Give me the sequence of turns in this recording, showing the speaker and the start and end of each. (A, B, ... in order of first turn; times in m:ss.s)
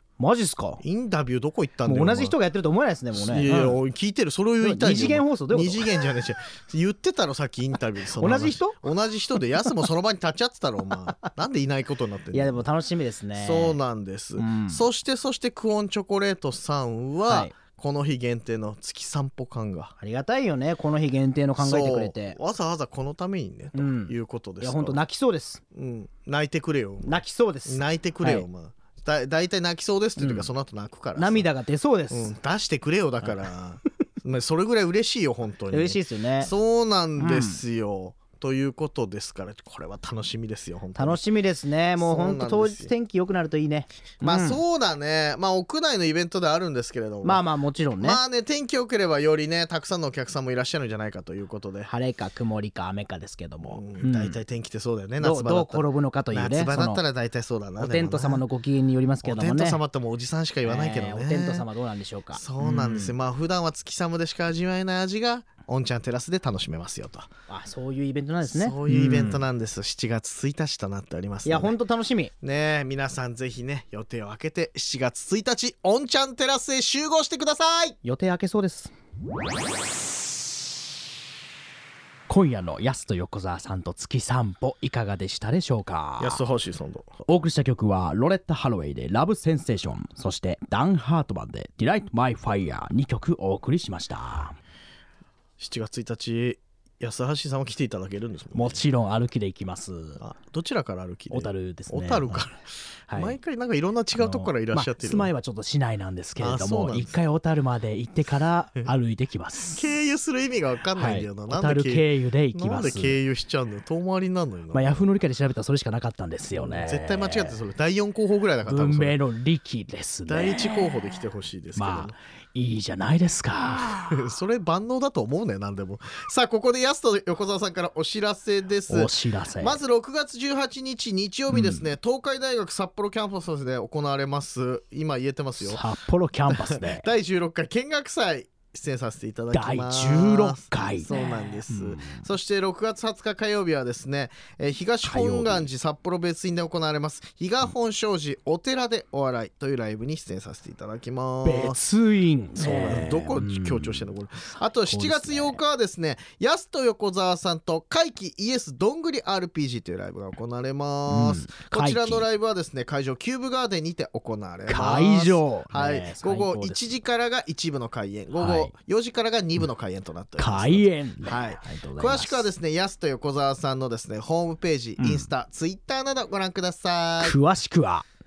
0:00.2-0:00.8 A
0:00.8-0:02.4 B
0:01.8-0:03.8 A
0:03.1-0:12.7 B
0:04.6-0:05.9 A
0:08.2-0:08.8 A
0:12.3-0:13.8 A
0:13.3-0:19.9 B
0:14.4-0:14.8 A
0:17.3-0:17.5 A
0:20.0-0:22.4 A
0:21.6-0:25.0 B
0:23.7-0:25.6 A
0:25.7-0:31.5 B
0:27.0-0:28.5 A
0:30.2-0:30.5 A
0:31.2-0:32.3 A
0:32.1-0:41.2 B
0:33.2-0:33.5 A
0:35.7-0:36.5 A
0:37.2-0:37.6 A
0:41.0-0:44.6 A
0:42.0-0:42.9 B
0:44.2-0:47.4 B
0:47.2-0:48.2 A
0:48.0-0:51.9 B
0:51.9-0:54.4 A
0:53.6-0:58.4 B
0:55.2-0:57.0 A
0:57.8-0:59.8 A
0:59.2-1:01.7 B
1:00.6-1:03.1 A
1:02.3-1:07.3 B
1:07.5-1:09.4 A
1:08.4-1:11.8 B
1:11.4-1:12.3 A
1:12.4-1:18.0 B
1:18.0-1:18.9 A
1:22.3-1:26.4 A
1:26.2-1:27.1 B
1:27.3-1:34.6 A
1:35.6-1:38.9 B
1:38.5-1:40.2 A
1:40.2-1:42.6 B
1:41.3-1:42.5 A
1:43.1-1:43.4 A
1:43.1-1:45.3 B
1:44.2-1:49.8 A
1:46.4-1:47.2 B
1:49.7-1:55.1 B
1:51.0-1:53.2 A
1:54.7-1:57.6 A
1:56.5-1:59.2 B
1:58.6-2:00.9 A
2:00.3-2:02.2 B
2:01.7-2:04.2 A
2:03.7-2:15.8 B
2:08.9-2:09.8 A
2:11.5-2:11.9 A
2:15.6-2:17.0 A
2:16.5-2:31.8 B
2:19.5-2:22.2 A
2:25.0-2:25.7 A
2:31.4-2:35.6 A
2:32.6-2:57.4 B
2:41.1-2:42.3 A
2:44.7-2:47.0 A
2:48.3-2:48.7 A
2:50.4-2:52.5 A
2:55.0-2:55.3 A
2:57.2-2:58.1 A